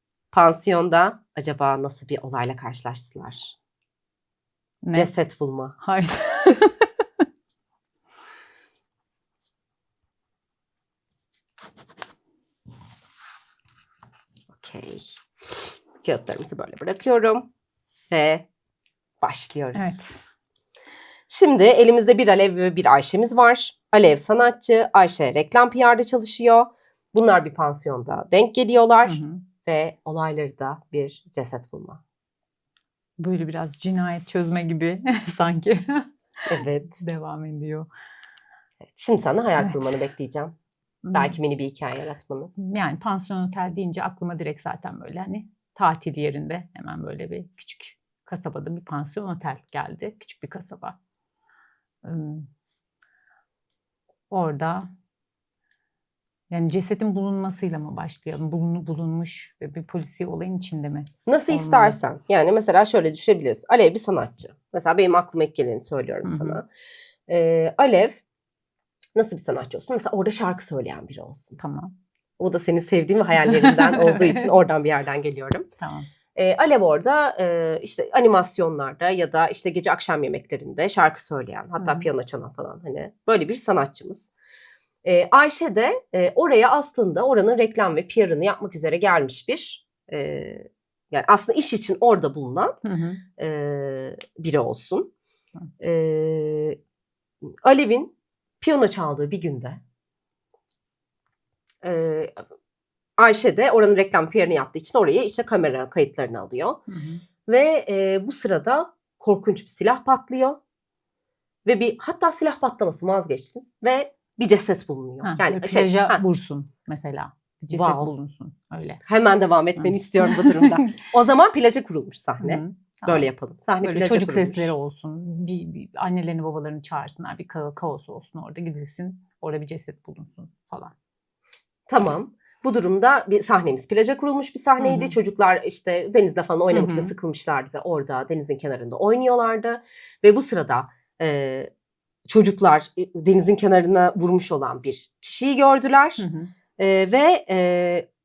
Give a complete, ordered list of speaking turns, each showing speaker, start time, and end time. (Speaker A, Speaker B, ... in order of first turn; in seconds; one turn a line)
Speaker A: 0.3-3.5
Speaker B: 4.8-5.1
Speaker A: 4.9-5.8
Speaker B: 5.8-6.9
Speaker A: 14.5-15.2
Speaker A: 16.0-17.5
Speaker A: 18.1-18.4
Speaker A: 19.2-20.0
Speaker B: 19.7-20.3
Speaker A: 21.3-32.0
Speaker B: 29.1-29.4
Speaker B: 33.2-36.1
Speaker A: 36.5-37.0
Speaker B: 37.0-37.9
Speaker A: 38.9-40.5
Speaker B: 41.0-41.4
Speaker A: 41.1-42.5
Speaker B: 42.6-51.0
Speaker B: 52.0-52.5
Speaker B: 54.3-54.9
Speaker B: 56.5-62.0
Speaker A: 61.3-66.7
Speaker B: 66.2-66.6
Speaker A: 67.3-68.2
Speaker A: 69.2-71.6
Speaker B: 71.6-71.9
Speaker A: 72.4-75.7
Speaker B: 73.4-74.5
Speaker B: 75.8-76.1
Speaker A: 76.3-84.3
Speaker B: 81.8-82.0
Speaker A: 85.0-92.8
Speaker B: 92.8-93.2
Speaker A: 93.4-95.1
Speaker A: 95.8-96.8
Speaker A: 97.6-99.8
Speaker A: 101.8-102.4
Speaker A: 103.2-106.8
Speaker B: 106.9-107.2
Speaker A: 107.5-110.6
Speaker A: 111.7-116.2
Speaker B: 115.2-119.0
Speaker A: 117.7-118.1
Speaker A: 119.0-124.7
Speaker B: 119.8-121.0
Speaker B: 122.4-123.3
Speaker B: 123.8-130.9
Speaker A: 131.9-141.7
Speaker B: 134.8-135.1
Speaker B: 136.7-137.1
Speaker A: 142.3-146.2
Speaker B: 146.2-146.5
Speaker A: 146.8-148.1